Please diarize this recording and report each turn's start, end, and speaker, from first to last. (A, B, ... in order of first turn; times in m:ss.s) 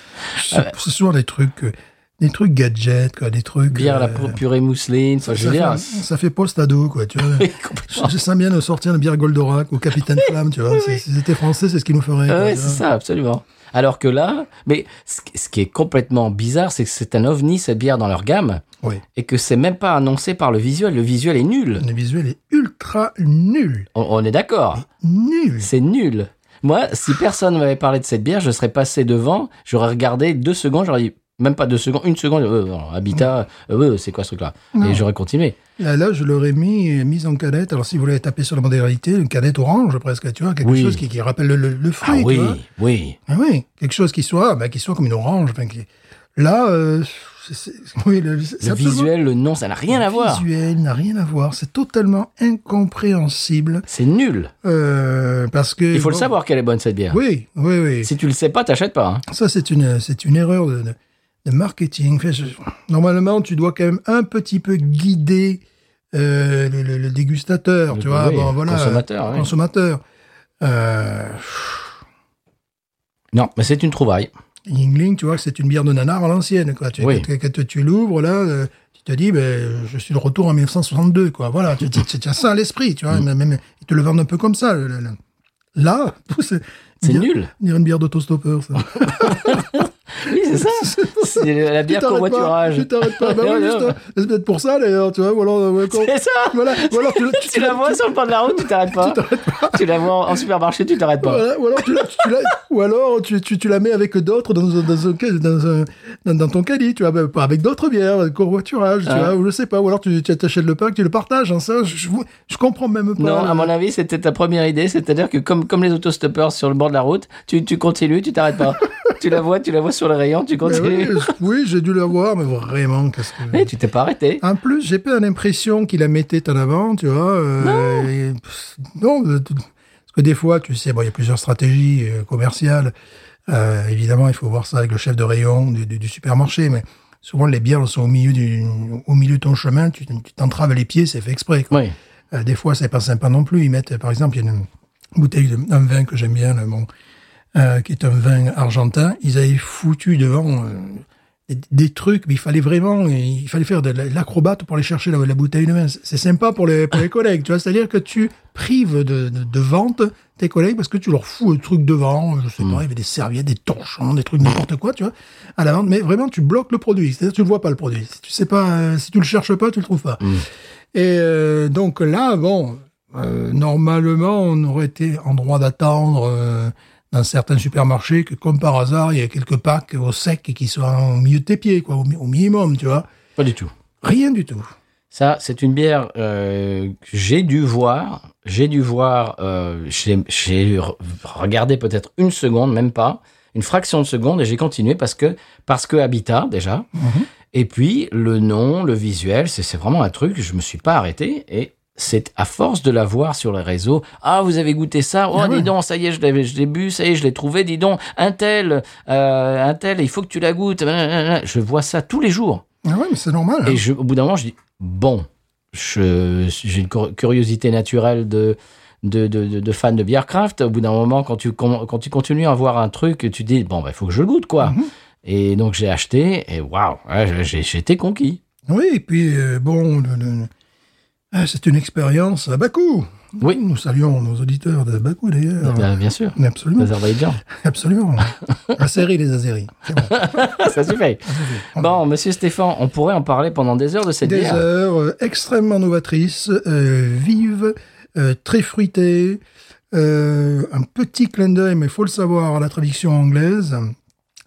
0:00.3-0:04.4 A
0:00.4-0:00.7 B
0:03.7-0:06.0 B
0:05.2-0:12.8 A
0:07.3-0:08.1 B
0:10.2-0:11.0 B
0:12.3-0:18.6 B
0:19.2-0:21.8 B
0:21.8-0:23.9 A
0:24.0-0:24.8 B
0:24.8-0:25.7 A
0:25.6-0:35.6 B
0:34.7-0:35.0 A
0:35.8-0:42.6 A
0:40.6-0:41.0 B
0:42.0-0:43.2 B
0:43.3-0:49.1 A
0:48.6-0:50.4 B
0:49.9-0:53.9 A
0:53.9-0:54.5 B
0:54.6-0:56.3 A
0:55.9-0:57.2 B
0:57.1-0:58.1 A
0:58.0-0:59.2 B
0:59.3-1:10.0 A
1:07.9-1:09.5 B
1:10.6-1:11.9 A
1:13.3-1:14.3 B
1:14.7-1:25.2 A
1:17.0-1:17.3 B
1:25.8-1:29.8 A
1:27.0-1:27.5 B
1:29.0-1:34.0 B
1:30.5-1:40.4 A
1:35.9-1:42.0 B
1:41.2-1:53.7 A
1:49.1-1:49.3 B
1:53.2-2:01.3 B
2:00.6-2:03.7 A
2:03.5-2:04.4 B
2:04.4-2:12.9 A
2:07.6-2:08.1 B
2:13.5-2:21.8 A
2:22.3-2:26.9 A
2:27.6-2:50.4 A
2:50.9-3:03.1 A
3:03.4-3:03.7 B
3:04.0-3:04.7 A
3:05.1-3:16.9 B
3:17.0-3:17.3 A
3:17.5-3:32.6 B
3:25.3-3:25.7 A
3:32.8-3:33.8 A
3:33.6-3:48.4 B
3:44.6-3:44.9 A
3:48.7-3:50.5 A
3:51.3-3:57.0 A
3:55.6-3:57.4 B
3:57.5-4:00.5 A
4:00.0-4:04.6 B
4:01.3-4:02.0 A
4:04.2-4:09.4 A
4:09.9-4:14.0 A